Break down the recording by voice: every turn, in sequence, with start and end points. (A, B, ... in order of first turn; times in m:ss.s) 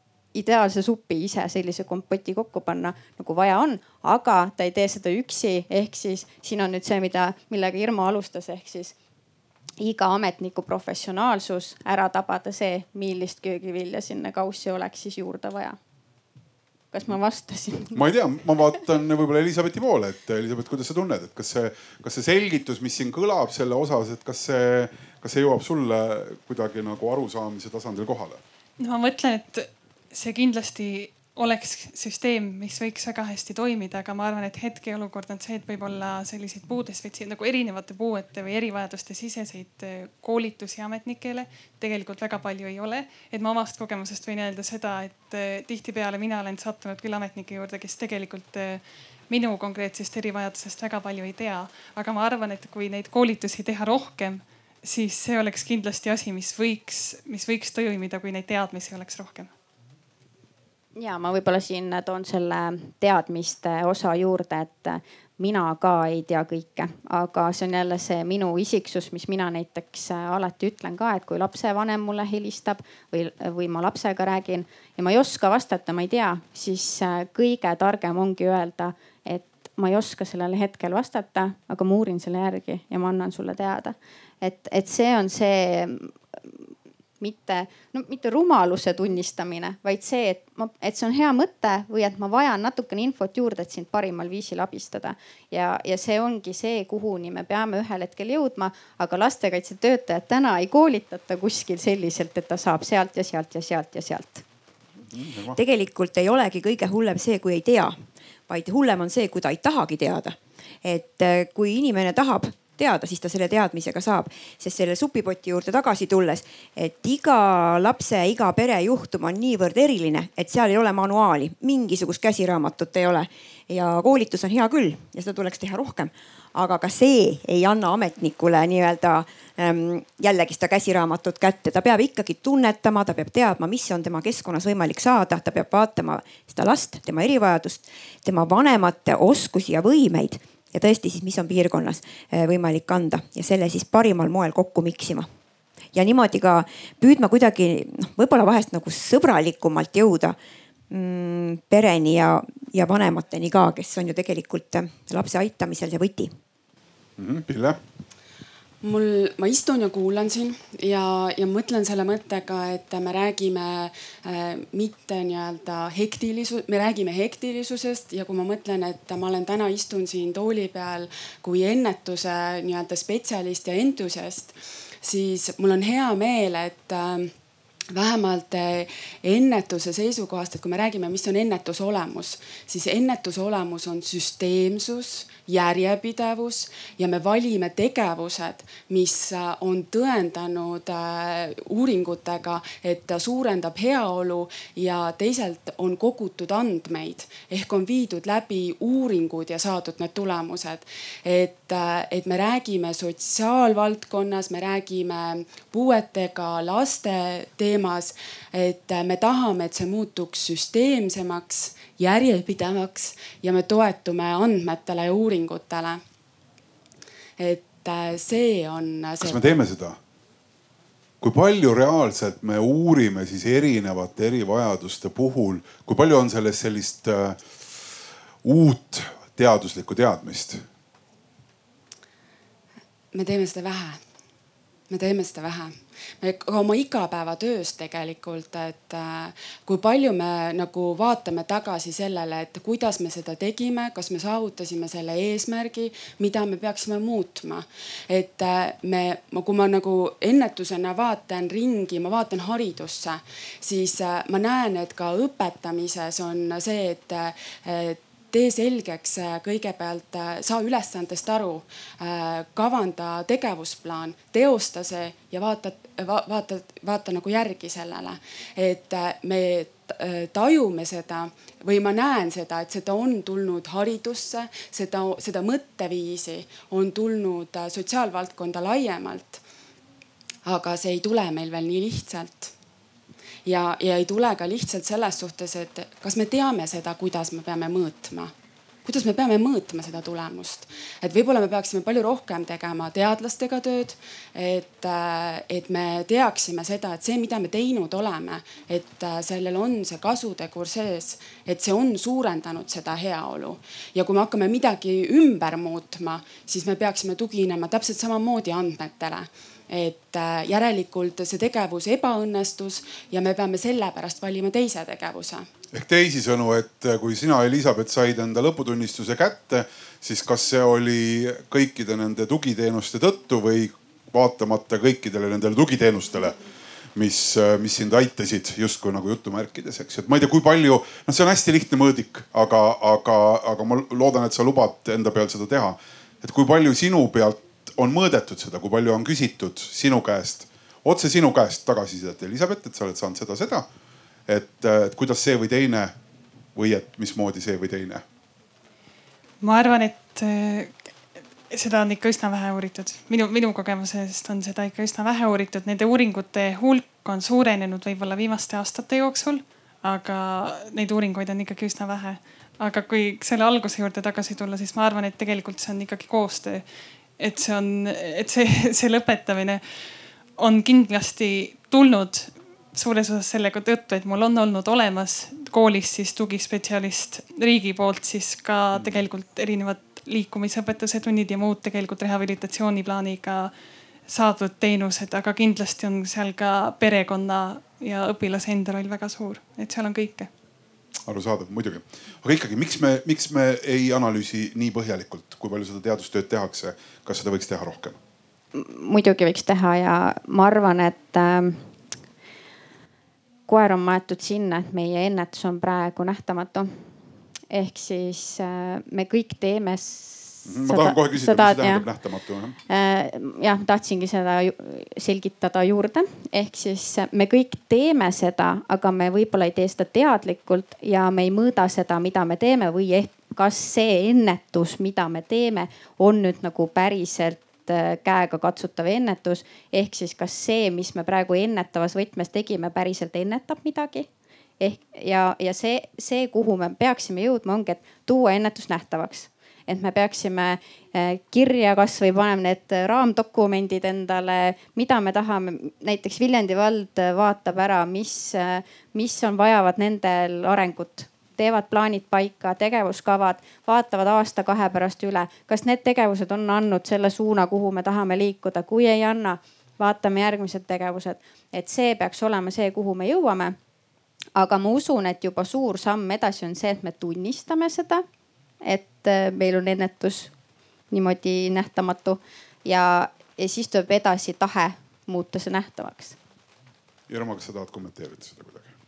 0:00.4-0:09.0 A
0:09.8-0:15.8 A
0:16.9-0:17.9 A
0:17.9-0:28.4 B
0:28.8-0:59.5 C
1:01.0-1:26.7 A
1:27.2-1:44.4 A
1:45.1-1:45.6 B
1:45.5-1:48.0 D
1:48.5-2:25.3 D
2:25.9-2:30.4 D
2:30.9-2:36.3 D
2:37.2-2:37.8 B
2:38.8-2:57.3 E
2:57.9-3:36.0 E
3:37.4-3:39.6 E
3:39.2-3:40.0 B
3:41.2-3:47.6 B
3:48.4-3:50.6 B
3:53.1-3:54.0 E
3:54.9-4:39.4 E
4:40.4-4:42.5 E
4:43.5-4:48.3 E
4:48.8-5:15.5 E
5:15.7-5:26.4 B
5:27.0-5:43.7 B
5:44.3-5:46.0 B
5:46.6-5:48.0 B
5:49.4-5:50.7 C
5:51.5-6:06.6 C
6:07.2-6:09.6 C
6:10.4-6:23.5 C
6:18.7-6:19.0 B
6:24.1-6:30.3 C
6:31.1-6:38.0 B
6:38.5-6:41.6 A
6:43.5-6:46.8 A
6:47.5-6:51.8 A
6:50.5-6:52.6 B
6:52.7-7:14.1 A
7:14.6-7:43.6 A
7:44.4-7:48.0 A
7:48.6-7:50.3 A
7:50.9-7:56.2 A
7:57.1-7:58.7 B